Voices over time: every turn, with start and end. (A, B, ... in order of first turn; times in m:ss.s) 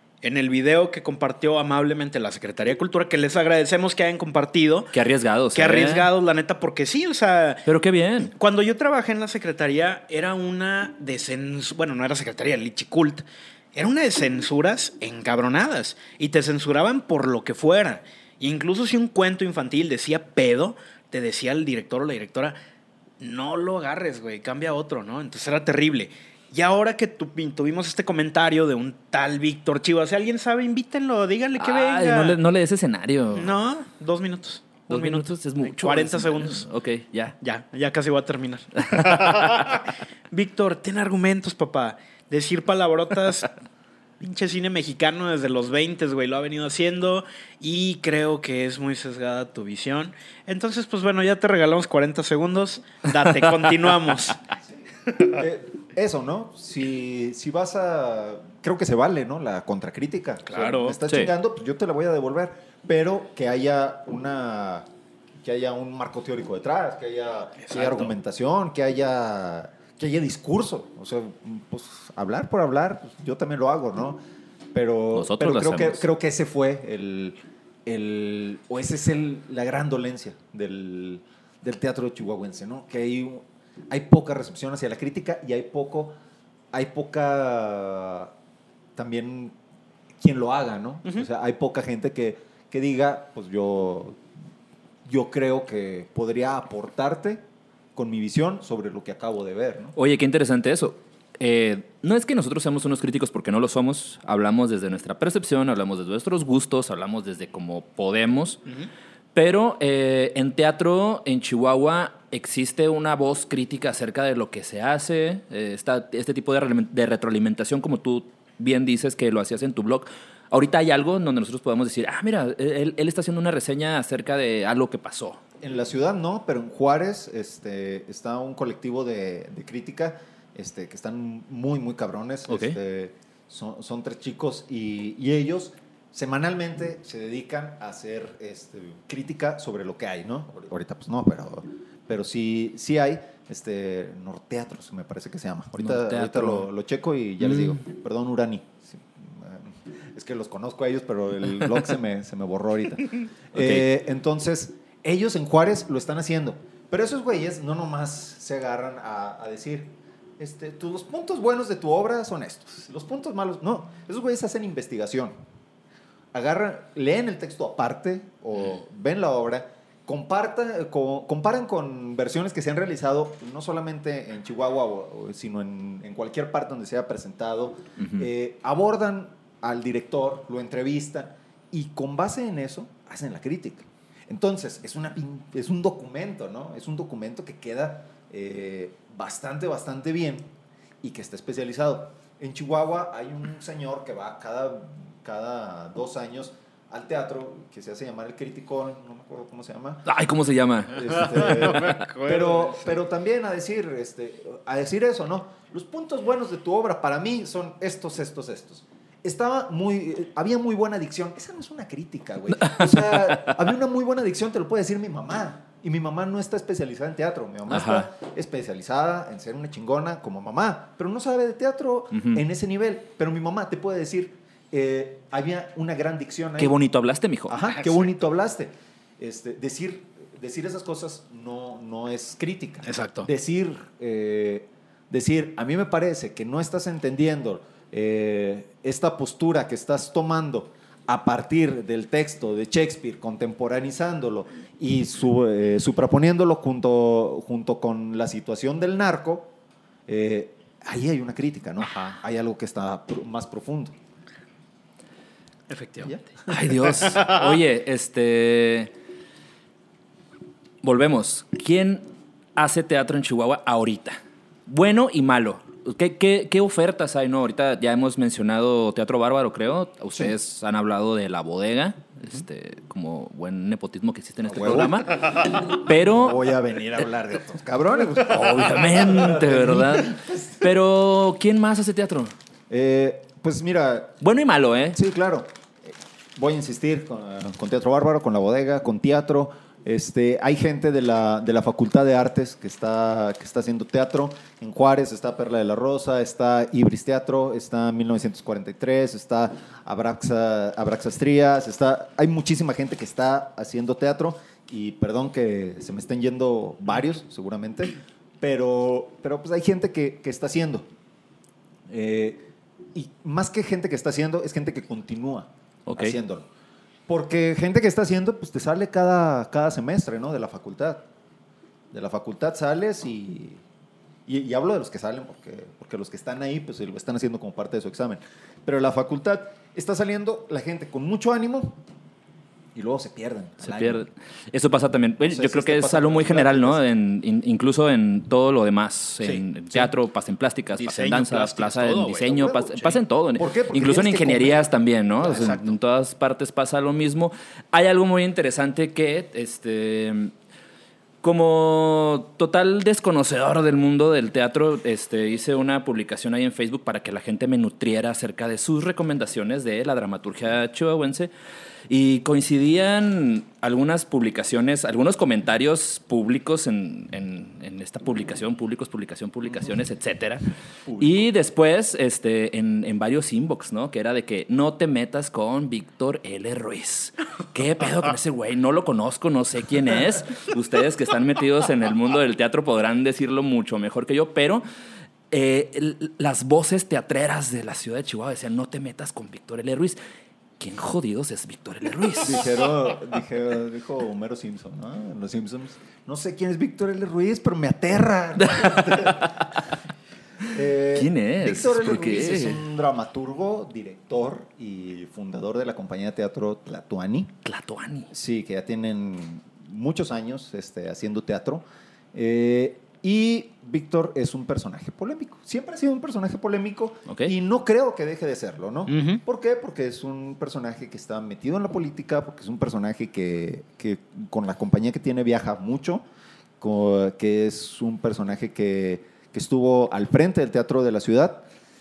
0:00.2-0:04.9 A
0:04.9-0:06.1 B
0:05.5-0:07.6 A
0:07.6-0:08.3 B
0:08.2-0:22.6 A
0:23.2-0:32.4 A
0:31.6-0:33.6 B
0:33.3-0:36.6 A
0:34.9-0:37.3 B
0:37.4-0:43.5 A
0:38.8-0:39.8 B
0:44.2-0:54.4 A
0:55.1-0:55.4 A
0:55.3-1:04.9 C
1:00.5-1:01.0 A
1:01.0-1:01.3 B
1:05.4-1:14.2 C
1:07.6-1:08.1 A
1:14.7-1:26.1 C
1:15.1-1:16.0 B
1:26.7-1:28.3 C
1:29.0-1:29.6 C
1:30.2-1:34.2 C
1:35.0-1:37.4 C
1:37.9-1:40.0 C
1:40.0-1:48.6 B
1:49.3-2:05.4 B
2:05.6-2:45.3 C
2:12.5-2:12.8 B
2:25.8-2:26.7 B
2:27.4-2:27.8 B
2:33.5-2:33.8 B
2:46.3-3:10.4 C
2:58.0-2:58.3 B
3:11.0-3:20.1 C
3:20.0-3:21.9 B
3:20.9-3:46.8 C
3:21.1-3:23.0 A
3:37.7-3:38.0 B
3:42.1-3:42.4 B
3:46.6-3:47.6 B
3:47.5-4:09.5 C
3:47.7-3:48.1 A
3:52.8-3:53.3 A
4:10.1-4:13.9 C
4:15.7-4:16.1 A
4:16.0-4:17.1 C
4:16.5-4:18.9 B
4:17.1-4:17.4 A
4:20.8-4:22.0 B
4:22.6-4:36.4 B
4:34.4-4:40.6 C
4:38.2-4:42.3 B
4:42.7-4:44.2 C
4:44.2-4:45.0 B
4:44.9-5:10.9 C
5:11.9-5:16.4 C
5:15.8-5:16.2 B
5:17.1-5:21.0 C
5:21.9-5:23.6 C
5:24.2-5:31.8 C
5:32.7-5:34.0 C
5:33.6-5:50.3 B
5:35.2-5:36.8 C
5:39.2-5:39.9 A
5:40.8-5:43.0 A
5:42.2-5:44.7 C
5:45.2-5:45.7 C
5:51.2-6:01.3 B
6:01.9-6:10.4 B
6:10.8-6:11.3 C
6:11.0-6:24.6 B
6:25.3-6:30.0 B
6:30.6-6:32.5 B
6:32.2-6:39.5 C
6:38.4-6:39.4 B
6:40.4-6:47.3 C
6:40.9-6:42.6 B
6:47.4-6:48.1 B
6:48.1-7:06.0 C
6:57.1-6:57.3 B
6:58.9-6:59.2 A
7:06.6-7:11.4 C